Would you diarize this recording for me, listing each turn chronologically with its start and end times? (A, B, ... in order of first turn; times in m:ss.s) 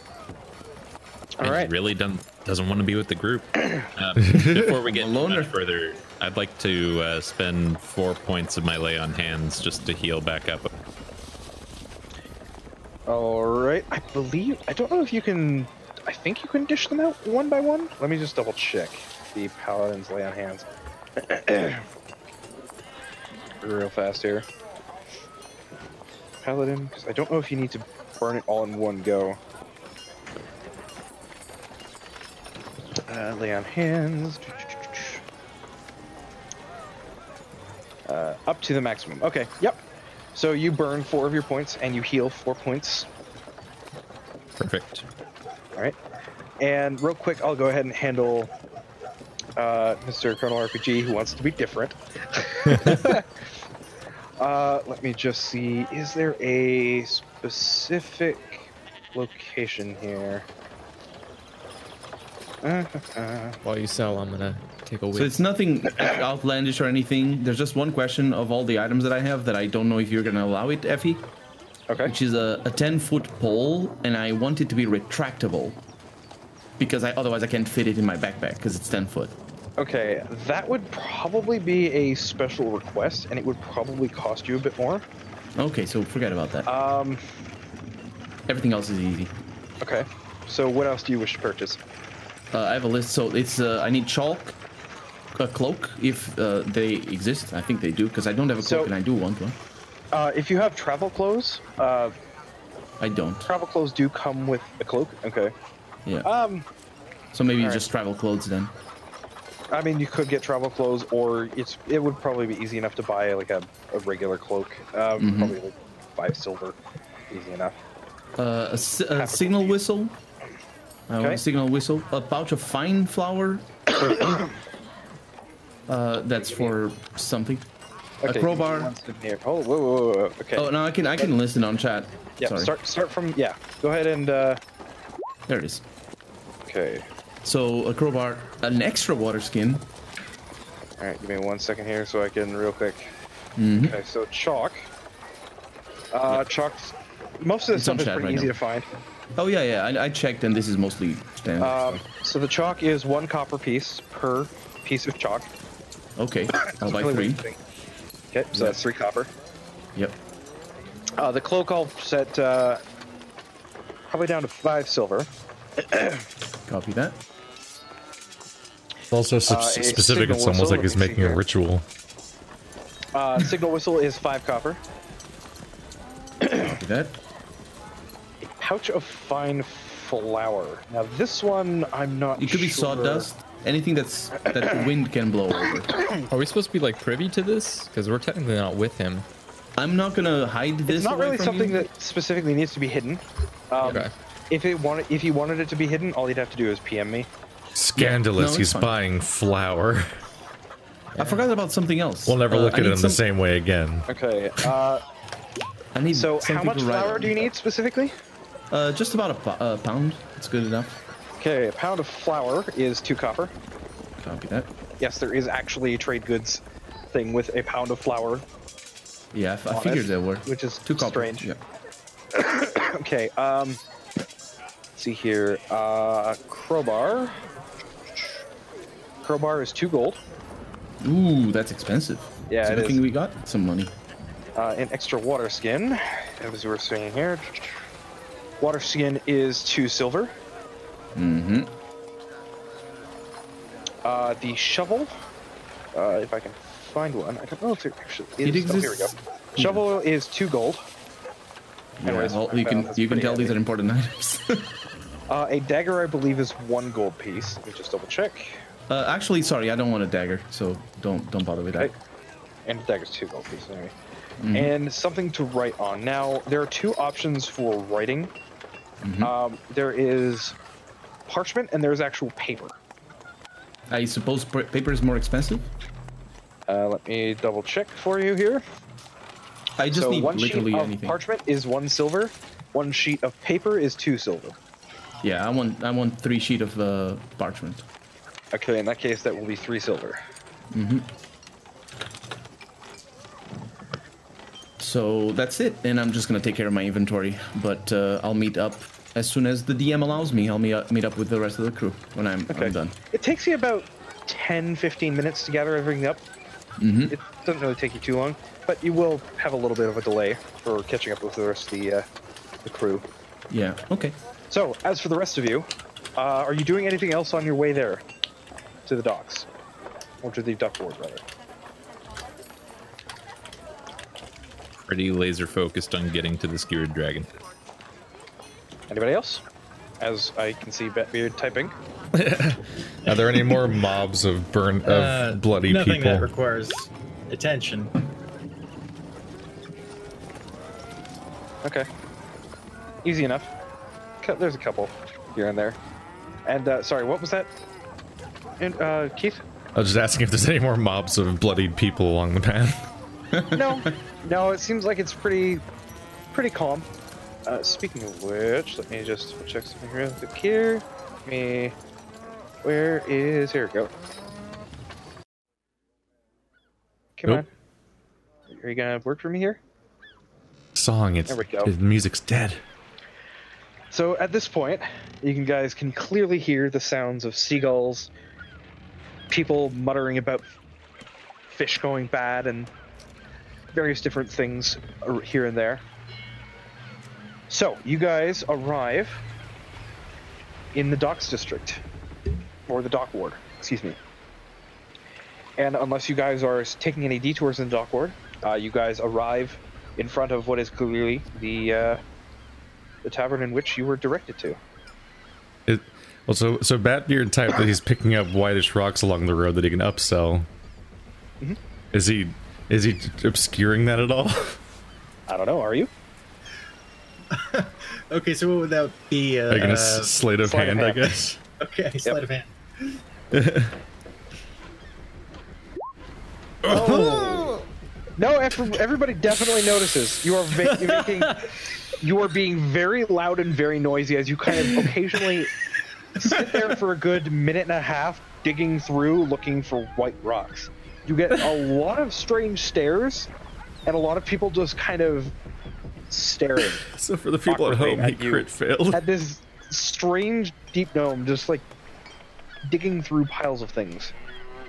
0:01.4-0:01.7 A
0:01.4-0:10.7 B
0:04.3-0:04.8 C
0:04.8-0:05.5 D
0:13.1-0:21.8 A
0:23.6-0:24.4 A
0:26.4-0:29.4 A
0:33.1-0:35.2 A
0:38.0-0:39.8 A
0:40.3-0:43.1 A
0:44.6-0:45.0 B
0:46.6-0:48.5 A
0:49.6-0:53.3 A
0:54.4-1:00.4 A
1:02.6-1:03.6 A
1:03.6-1:05.4 E
1:05.1-1:11.3 D
1:12.0-1:15.8 D
1:16.8-1:19.3 D
1:19.8-1:25.0 A
1:25.6-1:26.7 D
1:26.6-1:27.2 A
1:28.5-1:29.3 D
1:29.8-1:31.8 A
1:32.5-1:34.5 D
1:35.4-1:39.6 D
1:38.6-1:38.9 A
1:40.1-1:42.1 A
1:43.0-1:43.5 D
1:43.4-1:45.5 A
1:46.2-1:46.7 A
1:47.3-1:48.7 D
1:49.7-1:56.8 A
1:55.2-1:55.6 D
1:57.3-1:57.8 A
1:58.4-2:00.1 D
1:59.1-1:59.8 A
2:01.1-2:04.0 D
2:04.0-2:04.5 A
2:05.9-2:07.6 D
2:06.4-2:06.7 A
2:08.2-2:11.3 A
2:08.2-2:08.9 D
2:10.6-2:12.7 D
2:12.4-2:14.6 A
2:15.5-2:15.8 D
2:16.7-2:17.0 A
2:17.4-2:19.9 D
2:21.0-2:23.1 A
2:23.6-2:24.0 D
2:23.8-2:24.8 A
2:26.1-2:28.9 A
2:27.7-2:28.5 D
2:29.4-2:32.0 D
2:31.6-2:35.5 A
2:36.2-2:37.4 D
2:36.6-2:37.6 A
2:38.3-2:39.3 A
2:41.2-2:42.8 A
2:44.1-2:45.3 A
2:45.8-2:46.2 A
2:46.7-2:47.2 D
2:49.1-2:51.8 C
2:49.4-2:51.4 A
2:53.1-2:54.8 A
2:56.6-2:57.2 D
2:58.4-3:03.3 A
3:02.4-3:06.0 D
3:06.3-3:09.2 E
3:09.8-3:11.9 D
3:10.9-3:17.3 A
3:13.8-3:14.1 E
3:17.8-3:20.1 C
3:18.0-3:18.9 D
3:21.1-3:21.5 E
3:21.2-3:23.2 D
3:22.3-3:24.0 C
3:24.1-3:25.0 A
3:25.9-3:27.5 D
3:26.1-3:28.1 A
3:28.7-3:31.0 D
3:31.4-3:33.5 A
3:34.2-3:34.7 D
3:35.0-3:38.4 A
3:39.3-3:41.6 D
3:39.7-3:41.5 A
3:42.3-3:43.8 A
3:45.0-3:47.4 A
3:49.2-3:50.2 A
3:51.0-3:53.9 D
3:52.5-3:53.0 A
3:54.5-3:57.8 A
3:58.6-4:00.3 A
4:01.1-4:01.7 D
4:04.0-4:05.1 A
4:05.9-4:10.8 A
4:08.4-4:09.8 D
4:12.0-4:14.6 D
4:12.0-4:13.6 A
4:15.3-4:18.6 A
4:18.9-4:21.9 D
4:22.6-4:23.9 A
4:24.4-4:24.7 D
4:24.5-4:28.3 A
4:29.0-4:29.3 D
4:29.2-4:30.5 A
4:31.3-4:32.8 A
4:33.9-4:35.7 D
4:36.7-4:38.6 A
4:39.8-4:41.2 D
4:39.9-4:44.6 A
4:45.2-4:47.8 D
4:48.5-4:50.2 A
4:50.7-4:51.1 D
4:54.8-5:03.0 D
5:02.5-5:06.2 A
5:06.8-5:07.1 D
5:07.1-5:12.0 A
5:12.6-5:13.0 A
5:13.5-5:14.2 D
5:14.5-5:18.0 A
5:18.8-5:19.5 A
5:20.2-5:21.2 A
5:24.8-5:27.3 B
5:28.9-5:29.4 A
5:30.0-5:31.7 A
5:32.2-5:36.3 C
5:33.1-5:33.8 F
5:34.8-5:37.9 F
5:43.0-5:43.5 A
5:44.2-5:45.8 A
5:46.4-5:47.5 A
5:48.6-5:49.4 A
5:49.7-5:52.9 C
5:53.3-5:53.9 D
5:53.5-5:55.6 A
5:56.3-5:56.9 A
5:57.4-6:01.7 A
6:02.6-6:03.9 A
6:07.2-6:07.5 A
6:08.5-6:09.6 A
6:10.7-6:12.6 C
6:11.3-6:11.7 A
6:13.9-6:18.1 A
6:19.3-6:20.5 A
6:21.5-6:22.7 A
6:23.7-6:25.8 A
6:27.5-6:29.2 A
6:30.7-6:31.8 A
6:32.7-6:34.0 A
6:35.6-6:42.0 A
6:43.0-6:44.6 A
6:45.7-6:50.5 C
6:51.9-6:54.6 C
6:55.3-6:55.9 A
6:57.3-7:00.2 F
6:59.5-7:01.4 C
7:00.4-7:01.2 A
7:01.6-7:02.9 F
7:03.3-7:03.7 C
7:06.7-7:07.5 F
7:06.7-7:07.4 A
7:06.7-7:07.1 C
7:08.2-7:11.4 A
7:12.0-7:15.5 A
7:16.2-7:23.3 A
7:23.8-7:25.3 A
7:26.1-7:26.9 A
7:26.9-7:29.0 C
7:27.5-7:31.6 A
7:32.6-7:34.1 A